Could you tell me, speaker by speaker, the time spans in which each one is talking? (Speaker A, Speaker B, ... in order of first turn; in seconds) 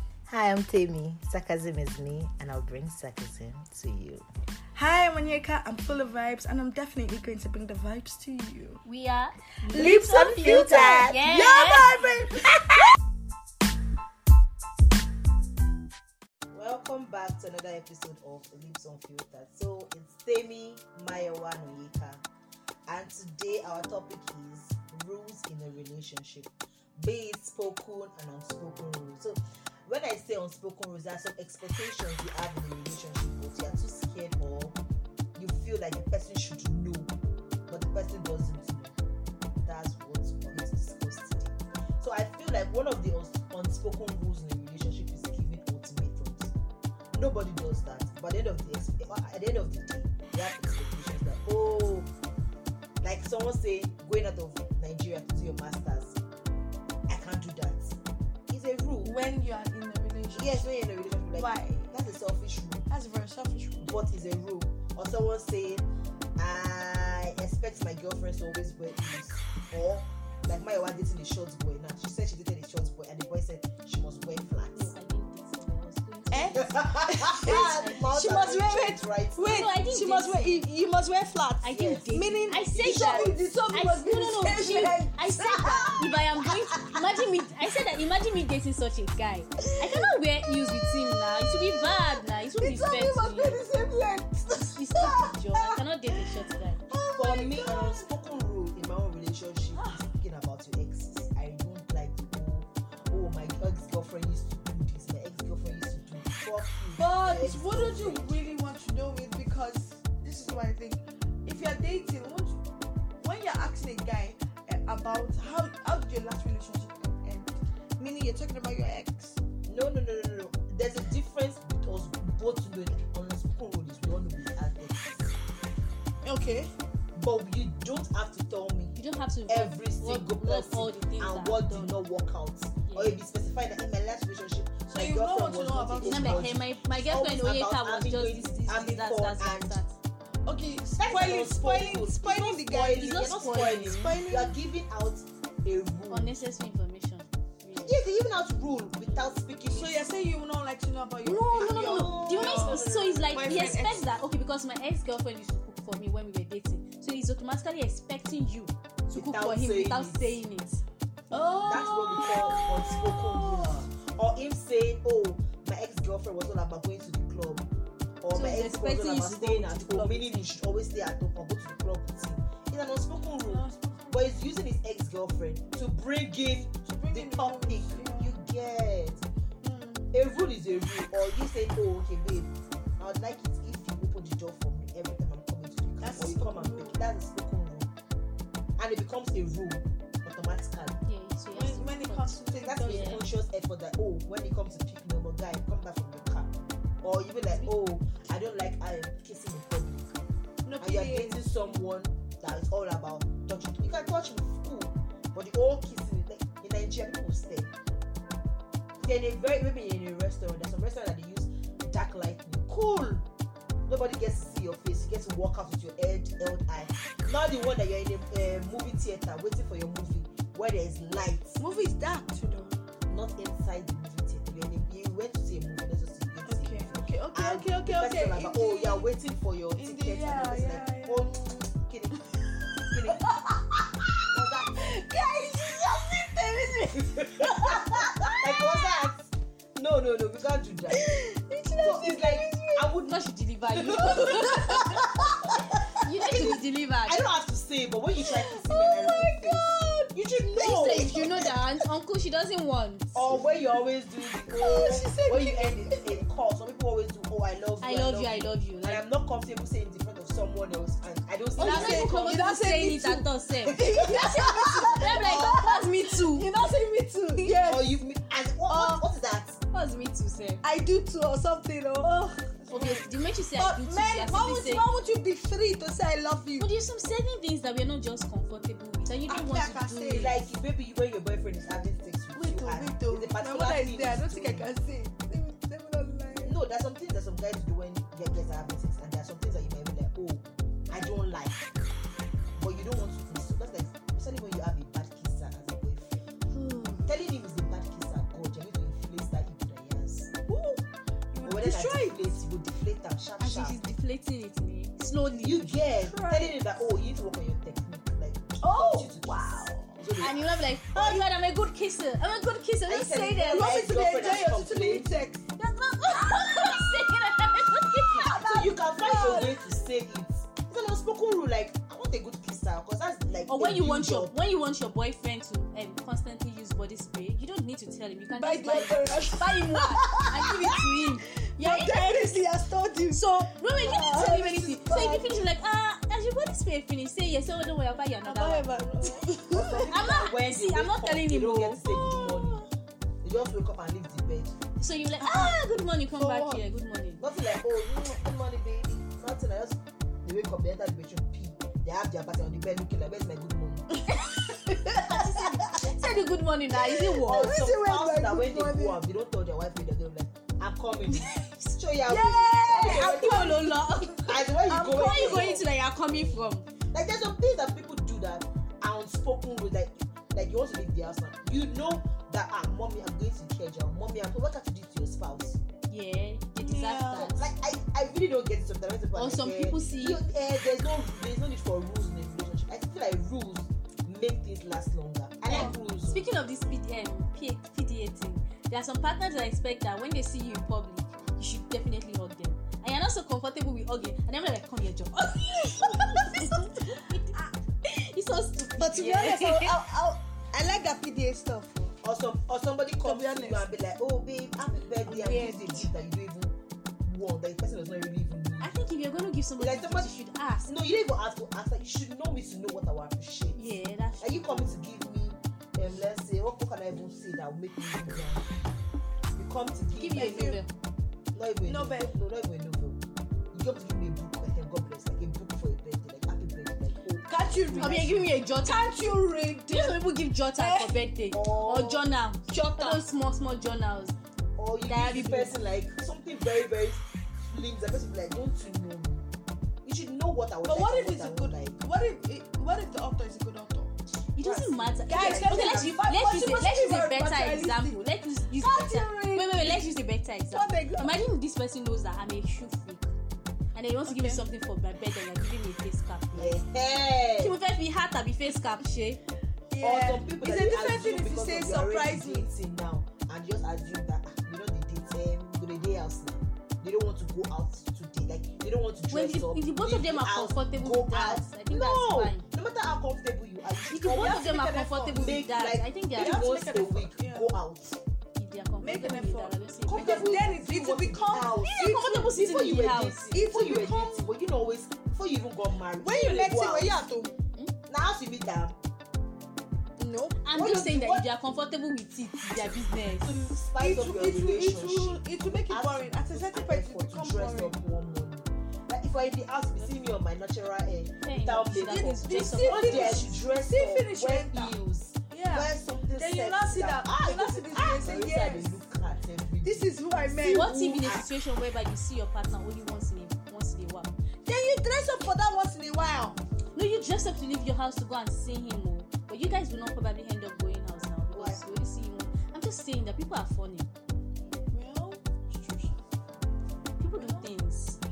Speaker A: 0.3-4.2, 9.7-11.2, 16.5-22.2, 22.9-34.8, 35.4-37.1, 37.7-39.0, 39.6-46.5, 47.1-52.1, 53.0-56.2, 57.1-58.0, 58.5-59.1, 60.3-62.9, 63.8-65.9, 66.4-74.9, 76.6-79.7, 81.7-82.1, 82.8-83.3, 97.2-108.4, 119.7-125.4, 127.2-129.0, 129.5-139.8, 141.0-146.4, 147.8-150.1, 151.5-154.0, 159.1-160.4, 161.6-167.7, 168.2-179.2, 180.1-187.9, 188.8-191.0, 192.6-200.3, 200.8-207.7, 209.0-213.3, 213.9-221.6, 223.1-232.2, 232.9-233.3, 234.3-234.9, 237.0-241.0, 241.8-251.5, 253.1-262.4, 267.4-269.6, 280.1-284.7, 286.4-291.7, 292.6-296.3, 297.1-300.4, 301.4-303.8, 305.2-311.3, 312.9-315.1, 318.3-324.4, 339.5-342.6, 343.2-344.6, 347.2-353.9, 357.2-363.7, 364.2-375.6, 377.3-386.3, 402.0-408.9, 409.6-410.1, 410.6-413.6, 414.2-418.4, 419.4-420.6, 421.3-423.0, 423.5-428.3, 431.3-432.1, 434.6-439.2, 439.8-441.8, 444.4-446.1, 456.3-457.6, 459.8-474.5, 475.1-478.0, 479.9-487.0, 487.9-488.8, 490.5-491.3, 493.1-511.3, 521.3-521.9
Speaker B: 4.8-8.8, 9.7-12.8, 59.0-60.7, 61.3-62.0, 62.9-64.0, 76.3-86.6, 89.6-96.3, 96.9-98.1, 99.8-100.1, 107.0-112.6, 113.2-119.4, 126.2-126.7, 134.9-136.6, 140.5-143.2, 143.8-144.6, 149.7-154.1, 161.3-163.9, 173.4-174.4, 176.8-178.3, 179.6-180.1, 186.0-187.0, 191.5-193.2, 200.7-201.9, 221.6-222.8, 226.4-229.1, 229.8-231.3, 232.8-239.0, 240.9-242.9, 244.5-244.9, 248.2-250.1, 254.6-256.2, 261.6-268.0, 268.7-269.1, 270.6-276.7, 279.3-280.4, 282.3-286.6, 300.5-302.2, 305.8-306.6, 308.6-309.9, 313.5-315.4, 318.1-319.8, 328.3-330.9, 331.6-335.4, 338.2-339.9, 341.9-342.7, 345.2-345.6, 346.1-346.6, 354.0-355.5, 357.2-359.0, 362.1-365.6, 376.6-377.4, 385.5-385.8, 395.9-396.8, 398.8-402.0, 403.0-403.7, 405.1-405.9, 420.1-420.6, 421.6-422.2, 427.2-430.0, 430.6-431.1, 432.5-433.0, 440.6-443.9, 445.1-448.0, 448.6-449.9, 450.5-451.2, 454.1-454.4, 459.7-462.5, 474.1-475.4, 476.2-477.5, 478.8-482.0, 483.3-484.3, 486.0-487.3, 490.0-490.4, 493.8-497.8, 501.8-504.8, 505.3-508.8, 509.6-510.8, 514.5-516.4, 524.7-526.0, 527.1-527.5
Speaker C: 8.8-12.1, 74.7-76.8, 77.6-78.0, 79.4-80.7, 81.6-93.6, 94.7-96.8, 128.9-132.0, 132.9-133.2, 136.0-140.0, 142.9-144.2, 146.1-148.0, 151.2-160.8, 168.3-170.5, 191.1-193.3, 243.0-245.0, 246.0-247.3, 250.5-253.2, 257.8-259.0, 261.6-266.5, 269.7-270.6, 272.7-274.9, 276.6-280.4, 296.7-297.0, 303.4-305.8, 310.2-313.8, 315.6-318.4, 323.5-332.3, 333.1-338.7, 339.9-341.8, 344.8-347.2, 354.7-357.5, 361.1-361.8, 362.7-366.7, 375.9-377.4, 379.1-380.2, 385.5-399.8, 408.6-410.7, 413.5-414.8, 419.9-420.7, 427.8-428.9, 429.7-434.1, 434.8-435.6, 444.3-453.1, 453.8-456.6, 457.4-459.2, 469.1-472.4, 473.9-476.4, 478.4-480.5, 481.7-483.3, 490.4-493.4, 501.2-503.3, 510.4-514.1, 516.8-523.9, 527.0-528.0